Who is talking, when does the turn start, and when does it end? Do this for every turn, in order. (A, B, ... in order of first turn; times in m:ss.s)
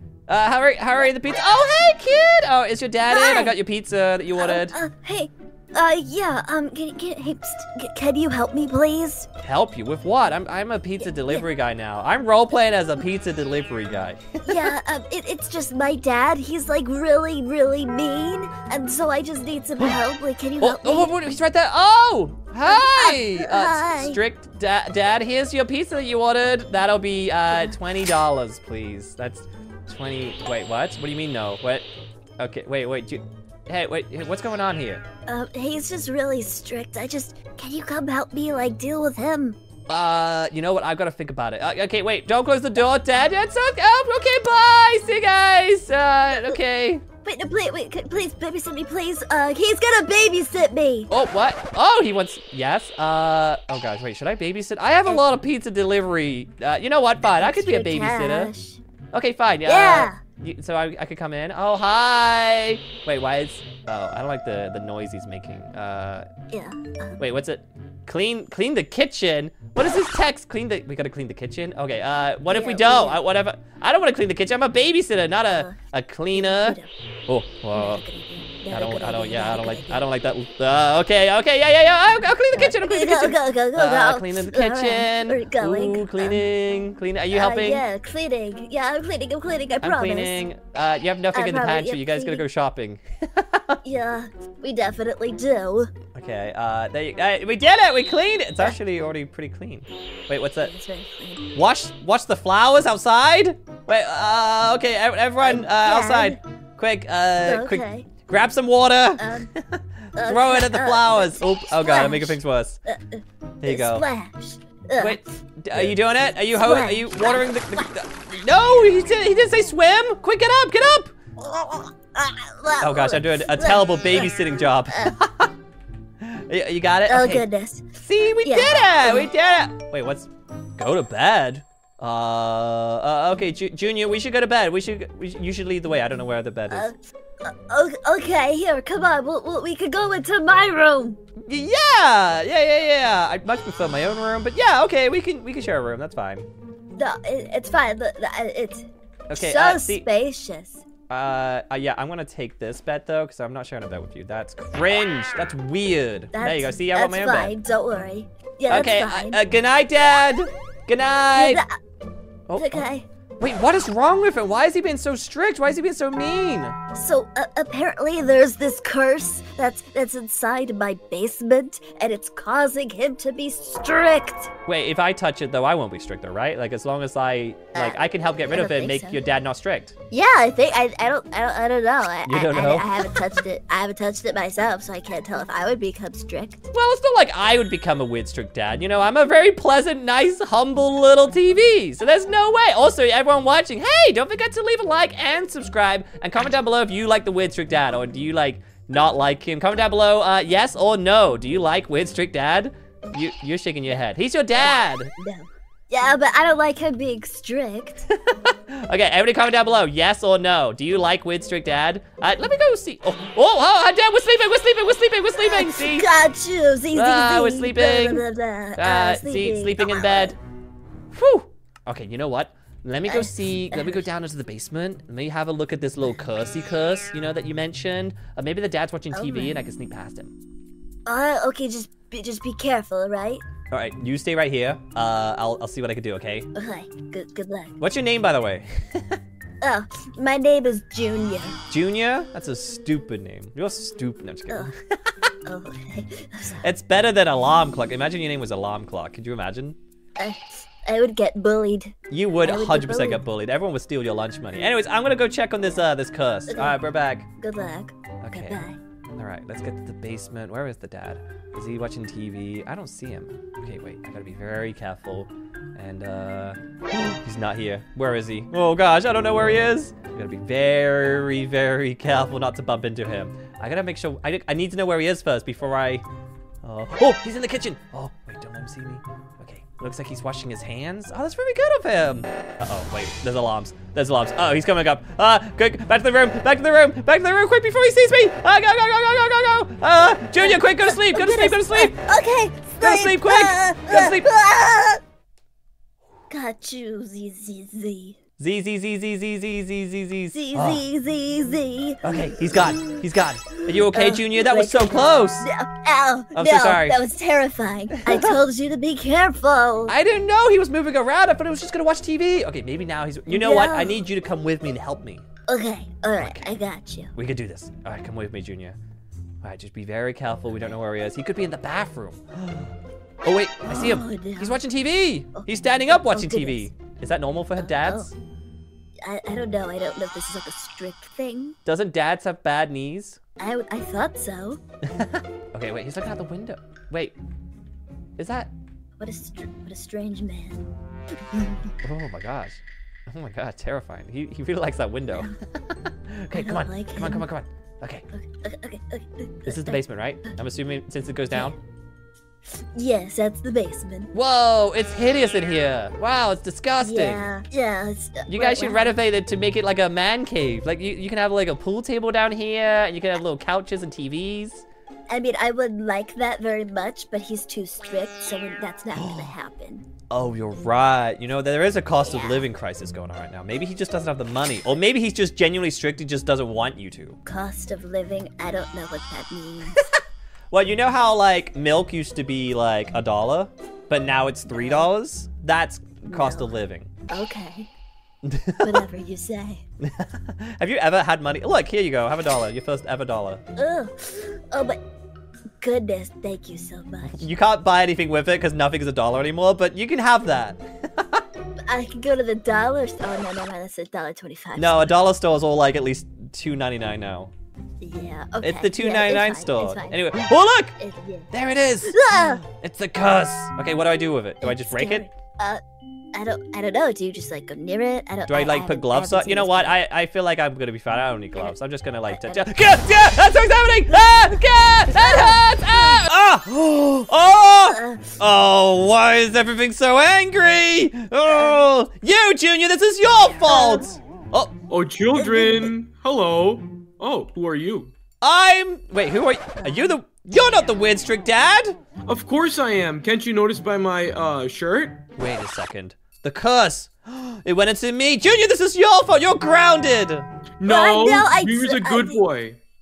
0:00.3-0:04.8 A
0:03.1-0:03.6 B
0:04.4-0:09.3 B
0:09.4-0:14.7 A
0:11.0-0:11.4 B
0:14.4-0:21.1 B
0:20.6-0:31.8 A
0:22.7-0:24.2 B
0:27.5-0:27.7 B
0:32.4-0:35.0 A
0:35.3-0:39.6 B
0:39.9-0:47.0 A
0:47.2-0:51.1 B
0:51.1-0:58.5 A
0:57.2-0:58.8 B
0:59.1-1:06.3 A
0:59.6-1:00.2 B
1:06.5-1:07.2 B
1:07.2-1:18.0 A
1:12.5-1:13.2 B
1:15.5-1:15.8 B
1:16.3-1:16.9 B
1:17.7-1:20.1 B
1:18.7-1:27.8 A
1:22.5-1:26.4 B
1:27.3-1:30.4 B
1:29.8-1:33.8 A
1:31.3-1:32.4 B
1:33.8-1:35.9 B
1:36.1-1:40.7 A
1:40.6-1:41.5 B
1:41.5-1:52.8 A
1:45.4-1:46.4 B
1:47.4-1:48.1 B
1:49.2-1:49.5 B
1:50.2-1:55.2 B
1:53.6-1:54.0 A
1:55.0-2:01.1 A
1:56.6-1:58.0 B
2:01.4-2:04.4 B
2:02.8-2:05.5 A
2:04.9-2:05.2 B
2:06.2-2:07.4 A
2:07.1-2:07.8 B
2:08.0-2:16.9 A
2:08.4-2:09.3 B
2:16.7-2:21.2 B
2:21.5-2:26.4 A
2:26.9-2:30.8 B
2:29.3-2:30.0 A
2:31.1-2:37.5 A
2:36.3-2:39.4 B
2:38.7-2:41.6 A
2:41.3-2:41.8 B
2:42.5-2:42.8 A
2:42.6-2:43.0 B
2:43.4-2:46.7 A
2:46.9-2:54.5 B
2:54.7-2:59.9 A
2:57.7-2:59.2 B
3:00.1-3:06.6 B
3:02.2-3:02.9 A
3:06.7-3:25.1 A
3:25.2-3:28.0 B
3:28.1-3:36.1 A
3:35.3-3:40.4 B
3:36.9-3:38.2 A
3:38.8-3:40.4 A
3:41.1-3:50.3 A
3:43.1-3:44.1 B
3:49.1-3:49.6 B
3:51.0-3:53.4 B
3:53.7-3:56.5 A
3:56.5-3:57.7 B
3:57.8-3:59.2 A
3:59.6-4:01.6 B
4:01.7-4:05.1 A
4:05.4-4:06.6 B
4:06.6-4:09.8 A
4:10.2-4:13.2 B
4:12.1-4:17.2 A
4:16.5-4:16.8 B
4:17.4-4:18.8 B
4:18.2-4:18.6 A
4:19.2-4:36.0 A
4:36.6-4:51.9 A
4:50.4-4:55.0 B
4:52.8-4:54.3 A
4:56.3-4:58.2 B
4:58.4-5:00.8 A
5:00.3-5:03.0 B
5:02.0-5:05.5 A
5:03.6-5:09.9 B
5:06.3-5:07.0 A
5:08.1-5:08.4 A
5:09.9-5:15.2 A
5:13.3-5:14.0 B
5:15.5-5:17.1 B
5:16.2-5:16.5 A
5:17.1-5:18.8 A
5:19.4-5:22.7 A
5:23.2-5:28.1 A
5:23.7-5:24.6 B
5:26.0-5:26.7 B
5:27.6-5:28.1 B
5:29.0-5:31.5 B
5:31.6-5:33.2 A
5:33.4-5:34.6 B
5:34.9-5:37.1 A
5:38.2-5:38.5 A
5:39.0-5:40.6 B
5:41.3-5:41.7 B
5:41.8-5:48.0 A
5:46.3-5:47.2 B
5:48.1-5:50.3 B
5:49.5-5:51.5 A
5:52.7-5:54.1 B
5:54.1-5:57.2 A
5:56.8-5:58.9 B
5:58.3-6:04.6 A
6:05.1-6:09.9 B
6:09.0-6:09.3 A
6:10.1-6:17.2 A
6:12.1-6:12.5 B
6:17.2-6:19.9 B
6:20.5-6:26.9 A
6:24.5-6:24.9 B
6:26.1-6:26.5 B
6:27.1-6:27.7 B
6:28.2-6:28.8 A
6:28.6-6:29.6 B
6:29.8-6:33.4 A
6:33.6-6:34.8 B
6:35.6-6:37.3 B
6:37.0-6:41.2 A
6:41.7-6:44.9 B
6:44.6-6:47.3 A
6:47.8-6:50.1 B
6:48.4-6:50.8 A
6:50.8-6:51.3 B
6:51.3-6:55.1 A
6:51.8-6:52.4 B
6:54.4-6:55.6 B
6:56.1-6:59.8 B
6:58.3-7:14.5 A
7:02.1-7:02.8 B
7:03.9-7:06.0 B
7:07.6-7:08.2 B
7:11.3-7:11.5 B
7:13.5-7:13.9 B
7:14.7-7:17.9 C
7:15.1-7:15.7 B
7:18.2-7:21.8 A
7:19.6-7:19.9 B
7:22.0-7:25.0 C
7:25.2-7:30.3 A
7:30.6-7:32.6 C
7:30.6-7:32.2 B